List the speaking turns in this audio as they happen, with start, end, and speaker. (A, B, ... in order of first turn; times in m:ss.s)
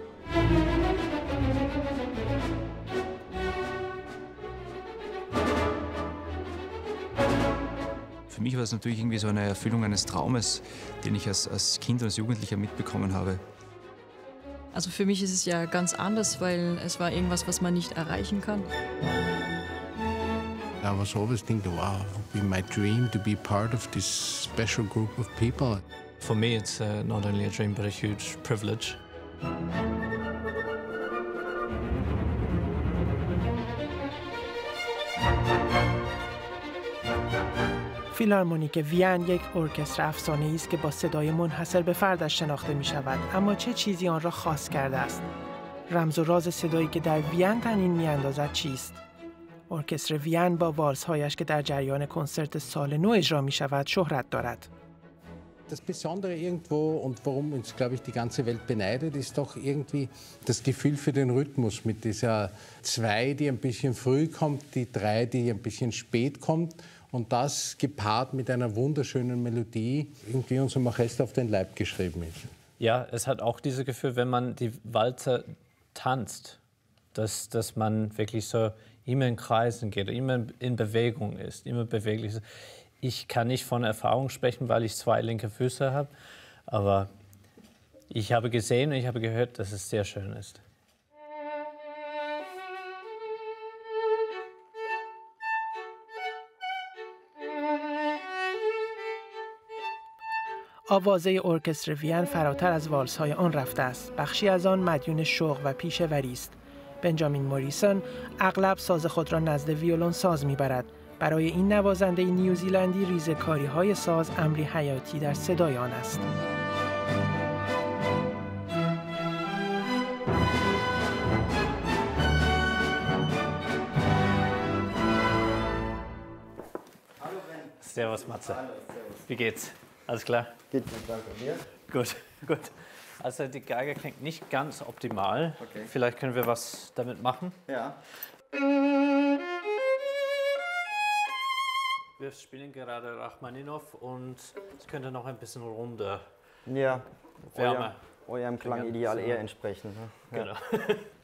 0:08.3-0:13.4 A
0:14.7-0:18.7 B
0:20.8-0:25.8 C
0:26.2-0:29.0 D
0:38.1-0:45.3 E
0:45.9-0:49.0 E
0:49.7-0:54.7 E
0:55.7-1:12.4 C
1:12.8-1:16.6 D
1:17.1-1:22.5 D
1:23.0-1:26.1 D
1:26.7-1:27.1 D
1:28.1-1:30.6 D
1:40.9-1:56.3 E
2:07.8-2:10.5 D
2:08.1-2:09.1 F
2:10.7-2:11.7 F
2:11.9-2:17.6 D
2:15.6-2:15.9 F
2:17.7-2:18.0 F
2:22.2-2:26.3 D
2:26.7-2:30.5 F
2:27.5-2:28.0 D
2:28.5-2:29.5 D
2:30.3-2:31.1 D